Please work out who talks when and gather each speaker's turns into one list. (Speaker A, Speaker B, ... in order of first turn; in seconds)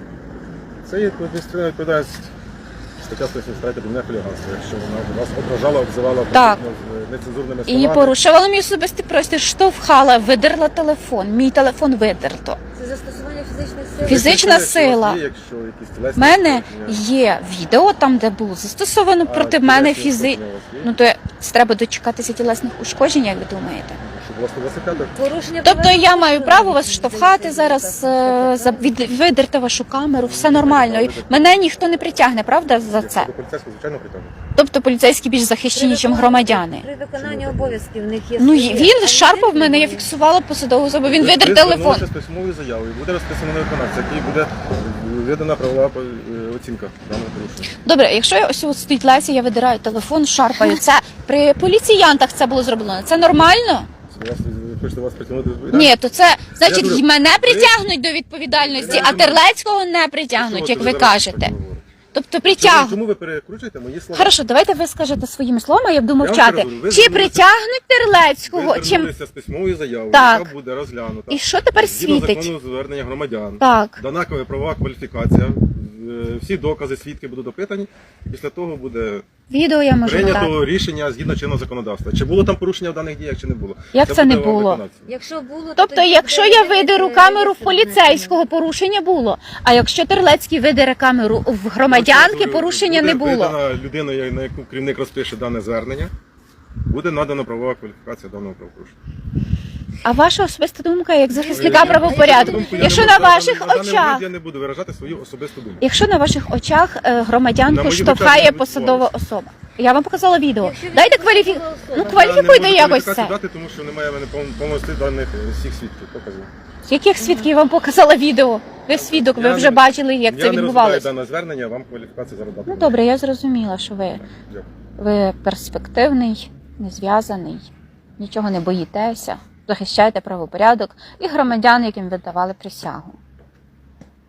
Speaker A: 0.8-2.3, 3.0-8.2, 14.0-17.0, 19.2-20.9, 24.0-25.1, 30.2-31.7, 32.9-34.3, 37.2-37.8, 41.0-47.7, 54.1-56.0, 56.6-57.8, 58.5-59.5, 60.3-61.8, 62.5-64.4, 66.2-67.5, 68.5-79.2, 80.0-85.1, 91.9-96.1, 96.9-99.0, 101.5-105.8, 107.7-109.1, 111.9-116.5, 118.9-123.0, 124.2-124.7
Speaker B: 6.3-6.6, 7.7-12.6, 14.1-15.2, 16.2-24.0, 25.6-33.3, 34.5-36.9, 38.4-42.1, 47.8-53.9, 55.7-61.5, 62.1-63.0, 64.1-69.1, 70.1-70.5, 71.3-72.5, 73.6-74.0, 79.5-80.5, 83.9-84.8, 85.8-93.6, 100.0-104.2, 105.8-113.3, 116.8-121.1, 122.7-124.2, 125.0-133.2
Speaker C: 12.8-14.4, 25.1-29.1, 35.7-40.1, 58.8-59.2, 85.1-88.4, 101.3-103.0, 110.6-112.2